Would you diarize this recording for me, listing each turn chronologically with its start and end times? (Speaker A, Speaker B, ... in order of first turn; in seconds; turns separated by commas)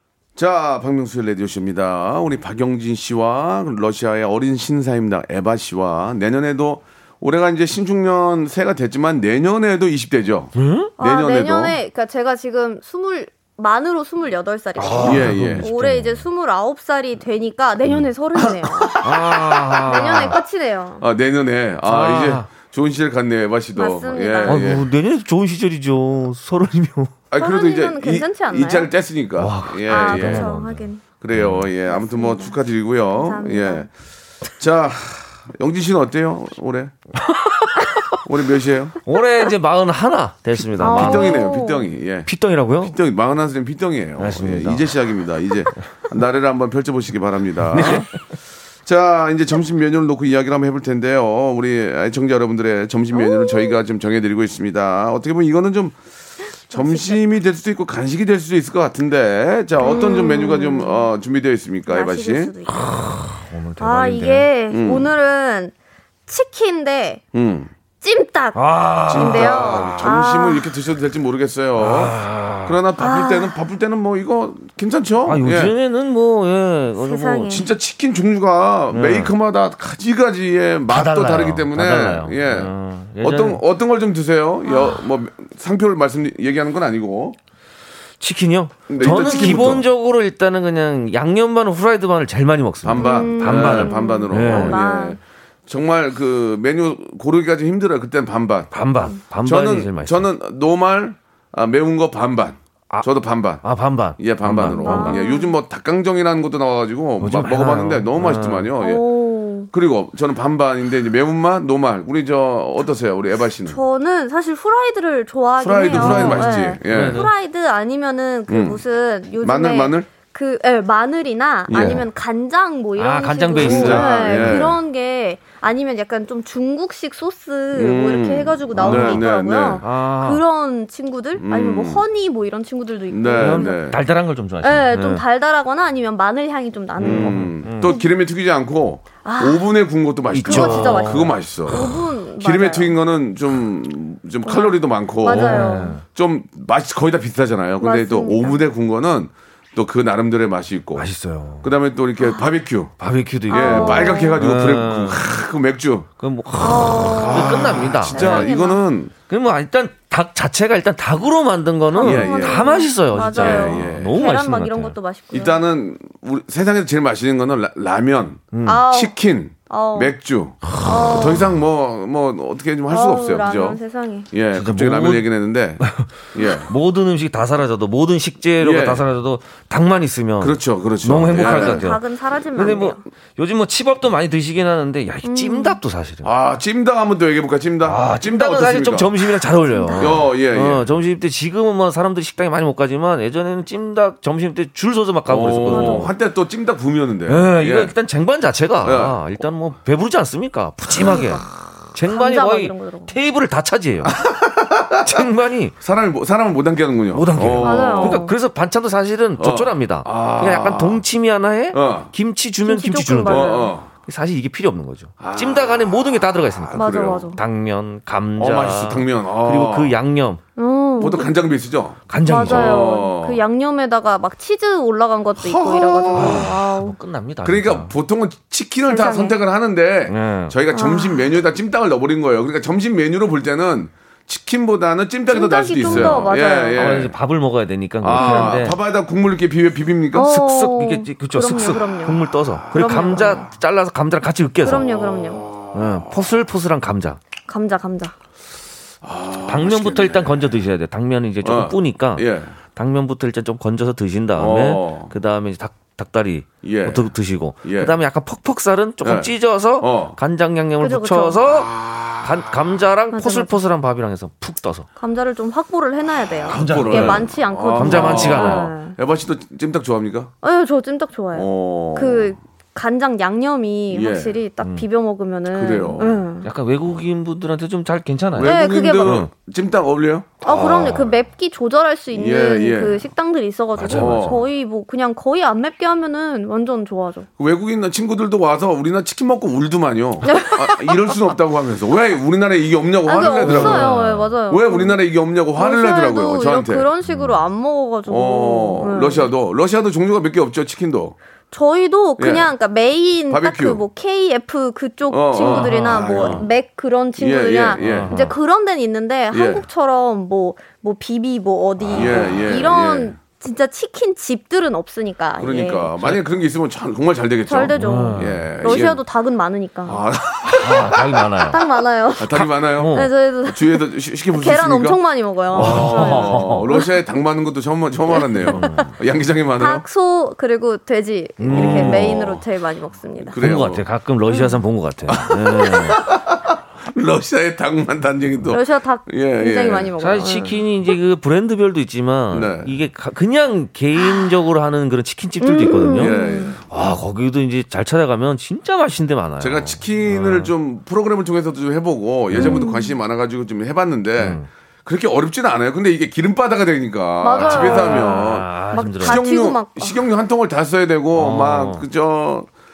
Speaker A: 0.3-11.8, Speaker B: 10.6-10.9, Speaker C: 11.0-19.1, Speaker B: 14.8-16.3, Speaker A: 15.0-15.7, Speaker A: 18.7-20.3, Speaker B: 19.0-20.4, Speaker C: 19.8-21.0, Speaker A: 21.0-24.8, Speaker B: 21.8-22.5, Speaker C: 23.8-24.7, Speaker B: 24.4-27.1, Speaker A: 27.3-30.6, Speaker C: 27.4-28.9, Speaker B: 29.4-31.7, Speaker C: 29.9-31.0, Speaker A: 31.2-33.9, Speaker C: 31.9-32.5, Speaker C: 33.1-33.9, Speaker A: 34.6-36.9, Speaker B: 37.2-38.1, Speaker A: 38.2-39.0, Speaker B: 39.0-41.5, Speaker C: 40.8-41.9, Speaker A: 40.8-42.3, Speaker B: 42.2-43.0, Speaker A: 42.8-48.1, Speaker B: 44.2-44.9, Speaker B: 47.7-48.1, Speaker A: 48.8-56.0, Speaker C: 53.1-53.8, Speaker A: 56.7-62.5, Speaker C: 56.7-57.2, Speaker C: 59.8-61.1, Speaker C: 61.9-62.9, Speaker B: 62.7-64.5, Speaker C: 63.8-65.7, Speaker A: 64.7-65.1, Speaker C: 66.3-67.2, Speaker A: 67.3-67.7, Speaker C: 68.0-70.7, Speaker B: 68.5-70.0, Speaker A: 69.1-75.7, Speaker B: 71.8-72.8, Speaker C: 73.0-73.6, Speaker B: 75.2-77.6, Speaker C: 77.0-77.7, Speaker A: 77.5-87.4, Speaker B: 78.9-79.3, Speaker B: 80.9-83.6, Speaker C: 84.7-85.0, Speaker B: 88.2-94.8, Speaker A: 88.9-89.9, Speaker C: 89.0-89.7, Speaker A: 92.8-98.7, Speaker C: 93.0-95.2, Speaker B: 98.7-100.3, Speaker A: 99.2-103.6, Speaker B: 103.6-105.2, Speaker A: 104.2-109.0, Speaker C: 104.7-105.5, Speaker B: 107.2-108.7, Speaker C: 108.8-109.7, Speaker A: 109.7-113.8, Speaker C: 113.7-133.8, Speaker A: 115.6-117.2, Speaker B: 115.9-117.3, Speaker A: 118.5-118.8, Speaker A: 119.4-120.1, Speaker A: 121.7-122.0, Speaker B: 123.0-124.7, Speaker A: 123.6-124.8, Speaker A: 127.7-129.8, Speaker B: 128.8-129.2, Speaker B: 129.8-130.4, Speaker A: 131.4-132.0, Speaker A: 133.1-134.0, Speaker B: 133.4-135.2, Speaker C: 134.6-138.1, Speaker B: 137.0-137.9, Speaker A: 137.0-151.1, Speaker C: 139.2-139.7, Speaker B: 140.3-141.4, Speaker C: 140.4-142.9, Speaker C: 144.4-146.0, Speaker B: 145.2-146.0, Speaker C: 147.8-148.6, Speaker B: 150.9-151.7, Speaker A: 151.6-152.9, Speaker B: 153.0-155.2, Speaker C: 153.5-154.4, Speaker A: 153.5-156.1, Speaker B: 156.2-158.5, Speaker C: 156.6-158.8, Speaker A: 157.2-159.1, Speaker B: 159.3-164.9, Speaker C: 161.9-165.6, Speaker A: 162.0-162.7, Speaker A: 163.2-164.2, Speaker A: 165.3-173.8, Speaker B: 168.5-168.8, Speaker C: 168.7-169.2, Speaker C: 169.7-170.2, Speaker B: 170.7-171.4, Speaker C: 170.8-171.5, Speaker C: 172.9-174.3, Speaker A: 174.3-176.7, Speaker B: 174.5-175.3, Speaker B: 175.8-176.1, Speaker B: 176.6-182.0, Speaker A: 178.6-179.0, Speaker A: 180.4-181.9, Speaker C: 181.4-183.0, Speaker B: 182.5-186.3, Speaker C: 185.2-185.8, Speaker A: 186.2-189.2, Speaker B: 187.8-196.1, Speaker C: 189.7-190.2, Speaker A: 190.0-190.8, Speaker A: 195.2-197.9, Speaker C: 195.7-196.1, Speaker B: 197.3-204.1, Speaker A: 198.8-199.2, Speaker C: 201.1-201.3, Speaker C: 202.1-203.1, Speaker A: 204.0-205.3, Speaker B: 205.0-205.7, Speaker A: 205.8-208.2, Speaker B: 207.1-220.4, Speaker C: 207.6-208.3, Speaker A: 209.4-211.0, Speaker A: 211.7-212.1, Speaker C: 212.6-213.7, Speaker A: 213.2-213.9, Speaker A: 215.2-217.3, Speaker C: 216.7-217.4, Speaker A: 218.4-219.9, Speaker C: 220.6-221.3, Speaker A: 221.0-223.4, Speaker B: 222.1-222.8, Speaker C: 222.2-226.9, Speaker A: 225.4-226.5, Speaker B: 226.1-227.9, Speaker A: 227.4-237.2, Speaker C: 228.9-229.4, Speaker B: 230.1-230.6, Speaker C: 230.7-231.2, Speaker C: 235.3-236.9, Speaker B: 235.8-238.8, Speaker A: 238.0-240.3, Speaker C: 238.1-238.6, Speaker C: 240.1-243.4, Speaker B: 240.2-244.9, Speaker A: 242.5-243.5, Speaker C: 244.6-245.4, Speaker A: 244.7-246.2, Speaker B: 245.7-247.2, Speaker C: 247.5-248.1, Speaker A: 249.0-250.5, Speaker B: 249.5-264.9, Speaker A: 251.4-252.6, Speaker A: 254.3-255.1, Speaker A: 256.6-257.1, Speaker A: 257.6-257.9, Speaker A: 259.0-260.2, Speaker C: 260.8-261.4, Speaker A: 261.4-262.6, Speaker C: 263.1-263.5, Speaker C: 265.0-268.9, Speaker A: 266.5-270.3, Speaker B: 266.5-268.7, Speaker C: 270.4-276.5, Speaker A: 271.3-272.4, Speaker A: 273.9-274.4, Speaker A: 275.5-276.2, Speaker B: 276.4-279.3, Speaker A: 278.3-280.9, Speaker C: 278.4-279.2, Speaker C: 280.4-287.3, Speaker B: 280.5-281.1, Speaker A: 282.1-283.1, Speaker B: 283.8-284.4, Speaker A: 283.9-284.4, Speaker A: 287.4-293.9, Speaker C: 290.2-290.9, Speaker C: 293.1-295.0, Speaker B: 293.2-294.3, Speaker A: 294.5-296.9, Speaker C: 295.5-299.3, Speaker B: 297.0-297.4, Speaker A: 298.1-301.1, Speaker C: 301.5-315.9, Speaker A: 302.2-302.5, Speaker A: 303.3-303.8, Speaker A: 305.1-306.5, Speaker B: 305.4-306.4, Speaker A: 307.2-308.2, Speaker B: 307.8-308.3, Speaker A: 309.3-309.6, Speaker B: 311.8-312.4, Speaker A: 311.9-313.1, Speaker A: 315.4-319.0, Speaker C: 317.5-320.0, Speaker B: 317.8-318.5, Speaker A: 319.9-321.0, Speaker B: 320.6-321.6, Speaker C: 321.5-326.9, Speaker A: 322.2-329.8, Speaker B: 322.4-323.1, Speaker B: 325.5-326.6, Speaker C: 328.1-328.9, Speaker B: 328.4-328.9, Speaker C: 329.6-333.4, Speaker B: 331.4-332.4, Speaker A: 331.5-332.3, Speaker A: 333.2-333.8, Speaker B: 333.4-336.0, Speaker C: 334.3-334.6, Speaker A: 335.1-339.9, Speaker C: 338.5-340.6, Speaker B: 340.0-346.2, Speaker A: 342.3-342.7, Speaker C: 343.9-344.3, Speaker C: 345.4-346.6, Speaker A: 345.9-346.6, Speaker B: 346.7-350.5, Speaker A: 349.4-362.5, Speaker B: 352.3-352.6, Speaker C: 352.4-352.9, Speaker B: 354.2-354.5, Speaker C: 357.2-360.0, Speaker B: 357.4-359.2, Speaker B: 361.1-361.8